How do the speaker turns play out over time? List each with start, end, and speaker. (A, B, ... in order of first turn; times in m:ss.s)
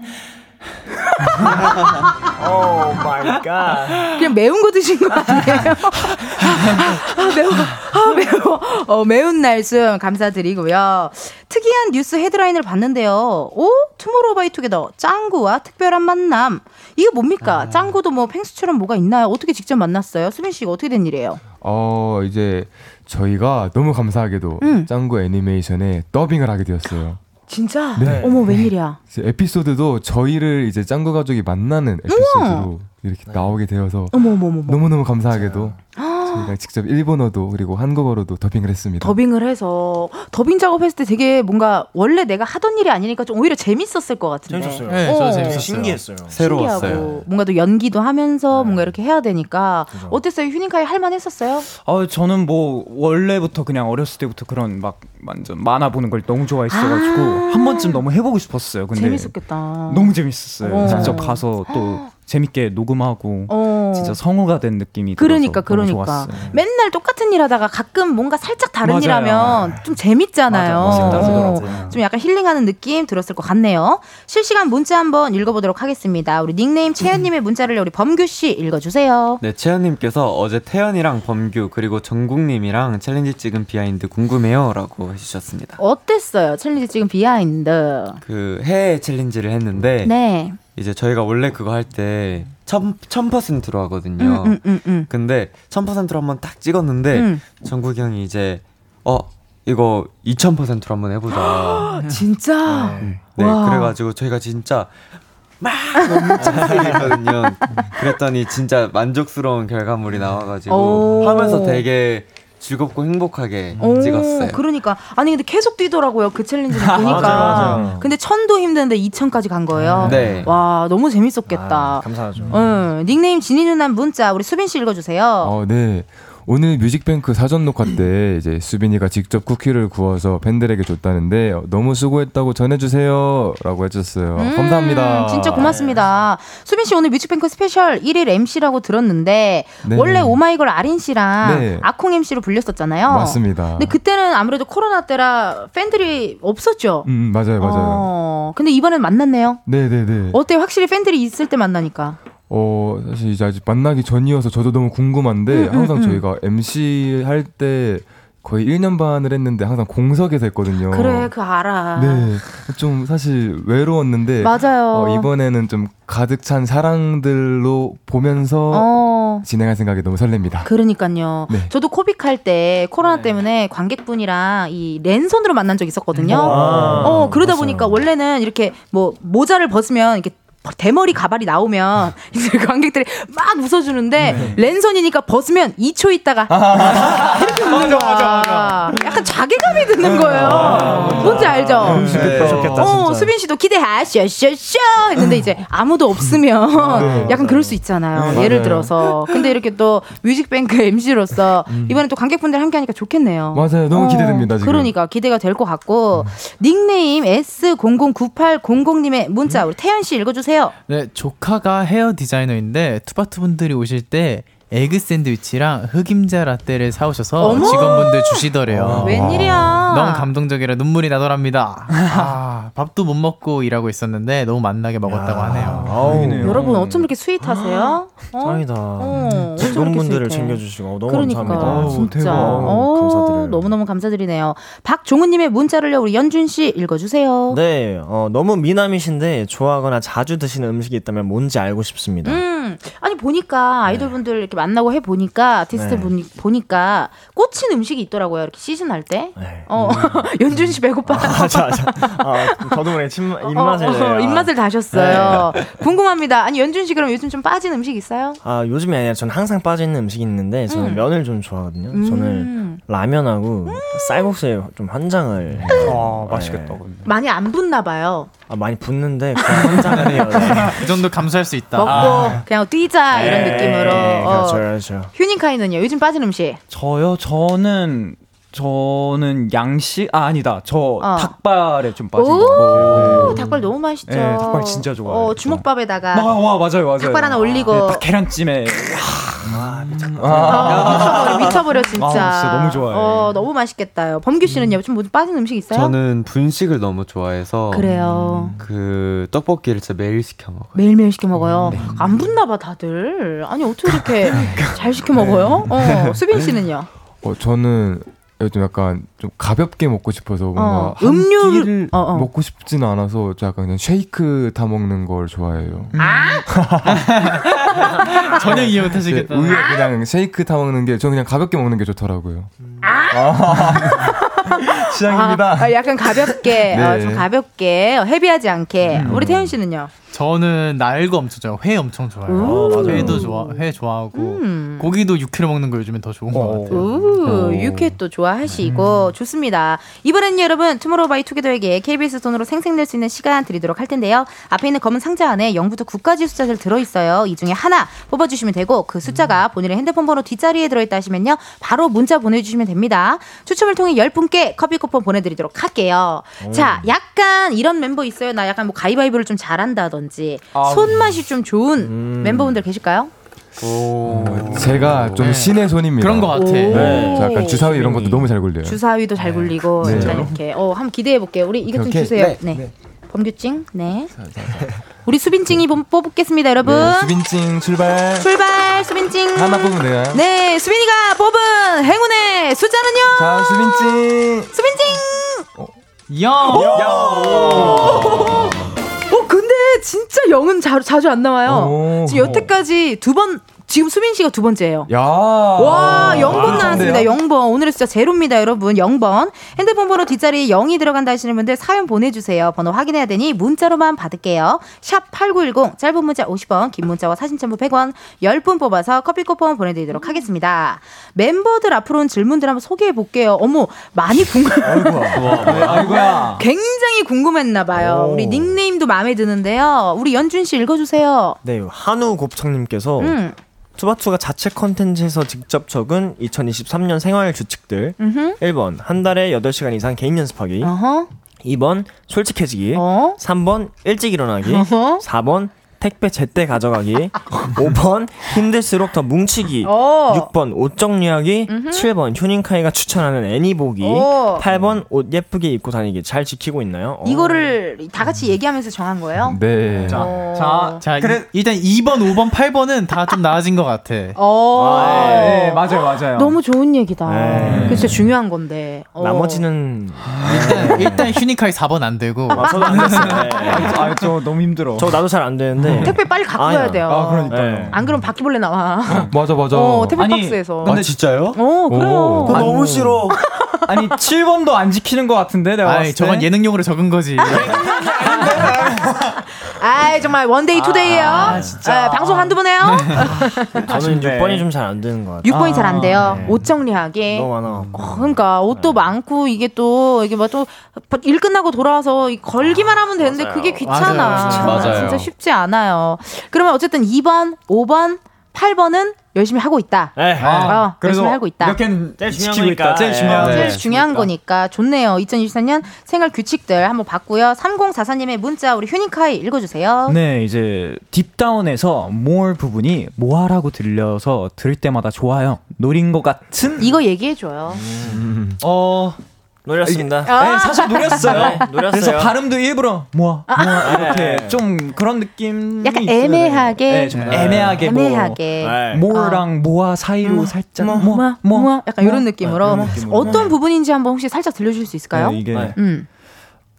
0:02.4-0:04.1 A
0:04.1-0:21.4 B
0:17.4-0:18.0 C
0:21.6-0:27.2 D
0:24.6-0:24.9 B
0:27.5-0:29.0 B
0:27.9-0:39.2 D
0:28.0-0:28.4 A
0:32.1-0:32.7 B
0:33.3-0:33.5 A
0:34.1-0:34.8 B
0:35.4-0:35.8 A
0:36.0-0:36.6 B
0:39.0-0:45.7 B
0:44.5-0:47.2 A
0:44.9-0:46.0 E
0:46.3-0:51.7 B
0:46.3-0:47.2 C
0:48.5-0:49.0 A
0:49.9-0:50.2 A
0:51.8-1:06.5 F
0:56.7-0:58.0 B
0:58.9-1:02.1 B
1:00.8-1:01.2 C
1:03.5-1:04.2 B
1:05.2-1:19.4 B
1:06.3-1:06.6 A
1:08.8-1:09.8 F
1:10.5-1:12.0 F
1:10.8-1:12.0 C
1:19.4-1:25.8 C
1:25.8-1:28.2 B
1:28.2-1:42.0 C
1:30.0-1:30.6 B
1:34.2-1:35.1 B
1:37.1-1:37.4 B
1:41.3-1:44.0 B
1:42.6-1:43.2 A
1:43.0-1:45.0 C
1:45.6-1:54.6 C
1:46.0-1:46.8 B
1:46.4-1:47.1 A
1:50.7-1:51.8 B
1:53.7-1:54.1 A
1:53.8-2:05.5 B
1:56.7-1:57.9 F
1:57.0-1:58.1 A
1:59.9-2:00.5 A
2:00.0-2:00.5 C
2:01.5-2:02.8 A
2:05.4-2:15.8 D
2:14.4-2:27.1 B
2:15.5-2:16.1 A
2:19.8-2:20.4 D
2:21.4-2:21.9 D
2:23.1-2:24.0 D
2:27.0-2:28.1 D
2:27.6-2:29.6 B
2:29.7-2:30.4 D
2:30.3-2:32.2 B
2:32.5-2:41.3 D
2:35.5-2:36.2 B
2:40.9-2:42.4 B
2:41.9-2:50.7 D
2:44.4-2:45.3 B
2:48.7-2:49.4 B
2:50.6-3:30.7 B
2:51.5-2:51.7 D
2:56.1-2:56.5 E
2:56.3-2:57.6 A
2:56.4-2:57.9 D
3:04.2-3:04.6 F
3:04.3-3:04.6 A
3:06.5-3:07.6 D
3:07.0-3:08.9 F
3:10.1-3:12.7 F
3:10.2-3:12.9 D
3:10.4-3:13.3 A
3:12.1-3:12.7 C
3:16.8-3:18.4 A
3:16.9-3:17.4 D
3:18.2-3:18.5 F
3:18.2-3:18.9 D
3:21.7-3:22.0 D
3:23.5-3:24.9 D
3:30.9-3:39.4 E
3:37.4-3:40.3 B
3:37.4-3:38.1 A
3:38.7-3:39.2 A
3:38.8-3:39.9 D
3:39.9-3:46.2 E
3:41.9-3:42.6 F
3:45.0-3:46.7 A
3:45.7-3:47.1 F
3:46.4-3:57.6 B
3:47.4-3:53.7 A
3:49.1-3:49.5 F
3:51.2-3:52.8 F
3:57.5-4:02.4 A
4:02.2-4:12.8 B
4:03.9-4:04.2 A
4:05.7-4:06.1 A
4:09.4-4:15.8 A
4:13.5-4:18.4 B
4:18.4-4:26.8 A
4:20.7-4:21.1 B
4:21.9-4:22.8 B
4:23.7-4:24.3 B
4:25.7-4:27.1 F
4:25.7-4:26.0 B
4:27.0-4:28.3 B
4:28.5-4:30.9 A
4:30.4-4:32.0 E
4:31.8-4:36.6 B
4:31.9-4:32.4 A
4:31.9-4:32.4 F
4:33.1-4:35.1 A
4:33.2-4:33.9 F
4:36.7-4:43.5 F
4:41.0-4:41.4 B
4:42.1-4:46.3 B
4:42.8-4:43.2 C
4:44.0-4:49.7 F
4:47.0-4:48.0 B
4:49.5-4:51.5 A
4:49.6-4:51.1 D
4:50.2-4:53.5 F
4:50.4-4:56.0 B
4:55.7-4:58.0 C
4:57.7-4:58.5 B
4:58.5-5:00.8 C
5:00.8-5:06.9 B
5:01.7-5:02.0 C
5:05.8-5:06.2 C
5:07.2-5:16.0 D
5:10.6-5:12.3 B
5:16.0-5:16.7 F
5:16.0-5:16.4 B
5:16.9-5:19.7 E
5:18.0-5:22.5 D
5:19.6-5:19.9 B
5:22.8-5:29.9 B
5:23.1-5:23.8 F
5:23.4-5:24.0 D
5:24.8-5:25.8 F
5:26.7-5:27.3 D
5:28.9-5:29.4 F
5:29.0-5:29.5 D
5:30.1-5:36.8 E
5:32.3-5:34.9 B
5:32.4-5:33.2 A
5:36.3-5:37.3 F
5:36.7-6:03.1 B
5:37.2-5:37.9 D
5:38.6-5:39.1 F
5:49.1-5:49.4 A
5:56.4-5:56.9 A
6:00.5-6:01.2 F
6:01.8-6:02.6 A
6:03.6-6:05.4 C
6:04.2-6:08.8 D
6:04.3-6:04.8 A
6:05.2-6:06.9 E
6:06.3-6:07.8 B
6:06.7-6:08.3 A
6:08.6-6:14.1 B
6:09.8-6:10.4 D
6:09.8-6:10.3 A
6:11.7-6:12.7 D
6:12.1-6:12.5 C
6:14.1-6:14.7 D
6:15.0-6:17.2 B
6:16.6-6:18.3 D
6:18.2-6:24.0 B
6:19.3-6:20.2 D
6:23.2-6:24.5 D
6:24.5-6:25.5 B
6:26.1-6:26.8 E
6:26.4-6:28.3 A
6:26.8-6:28.2 D
6:26.9-6:28.6 B
6:29.1-6:34.9 B
6:31.5-6:32.5 D
6:34.9-6:37.1 D
6:35.6-7:01.4 B
6:36.0-6:37.1 A
6:54.6-6:56.2 A
6:55.1-6:55.9 C
6:55.4-6:56.5 F
6:57.7-6:58.6 A
7:01.4-7:03.2 A
7:03.0-7:03.4 B
7:03.8-7:10.8 A
7:08.0-7:08.4 B
7:10.6-7:11.1 B
7:11.4-7:27.6 A
7:12.7-7:13.2 B
7:14.5-7:15.0 B
7:19.6-7:20.3 B
7:21.5-7:21.9 B
7:23.8-7:24.4 B
7:27.0-7:30.8 B
7:29.2-7:30.2 D
7:29.7-7:30.2 A
7:29.9-7:31.3 F
7:30.8-7:34.2 E
7:34.2-7:39.5 B
7:34.5-7:35.6 A
7:34.8-7:36.4 F
7:37.0-7:38.1 A
7:37.3-7:38.1 F
7:39.0-7:41.2 A
7:40.0-7:40.9 F
7:40.2-7:43.1 E
7:42.3-7:44.2 A
7:42.3-7:42.6 B
7:42.6-7:45.0 F
7:43.5-7:43.7 B
7:44.8-7:47.8 A
7:45.6-7:45.9 F
7:45.8-7:50.8 B
7:46.8-7:47.8 F
7:48.9-7:50.1 D
7:50.0-7:51.1 F
7:50.6-7:51.5 C
7:51.4-7:52.5 B
7:51.7-7:53.0 D
7:52.3-7:53.2 C
7:53.3-7:53.8 B
7:53.7-7:56.3 F
7:55.6-7:57.5 E
7:57.2-7:58.6 B
7:57.3-7:58.7 A
7:59.6-8:03.6 B
8:00.6-8:02.4 A
8:00.9-8:01.9 F
8:02.6-8:03.1 E
8:03.7-8:06.5 A
8:04.0-8:04.4 F
8:05.2-8:21.6 B
8:05.3-8:06.2 F
8:07.1-8:08.9 A
8:12.4-8:14.7 A
8:13.6-8:14.9 E
8:14.4-8:15.1 C
8:20.0-8:20.5 A
8:20.2-8:20.7 E
8:20.2-8:23.5 F
8:22.0-8:24.1 A
8:23.0-8:30.0 B
8:23.1-8:23.6 C
8:29.9-8:36.8 F
8:36.6-8:37.7 B
8:37.5-8:38.3 A
8:38.4-8:39.0 F
8:39.4-8:40.2 A
8:39.6-8:53.0 F
8:40.0-8:41.5 B
8:40.8-8:42.2 A
8:43.3-8:44.0 B
8:43.6-8:44.5 A
8:45.6-8:49.3 B
8:46.9-8:47.3 E
8:47.1-8:47.6 A
8:48.4-8:48.9 A
8:50.0-8:55.9 B
8:50.6-8:51.1 A
8:52.2-8:53.4 A
8:52.4-8:53.2 D
8:54.9-8:55.6 F
8:55.3-8:55.6 A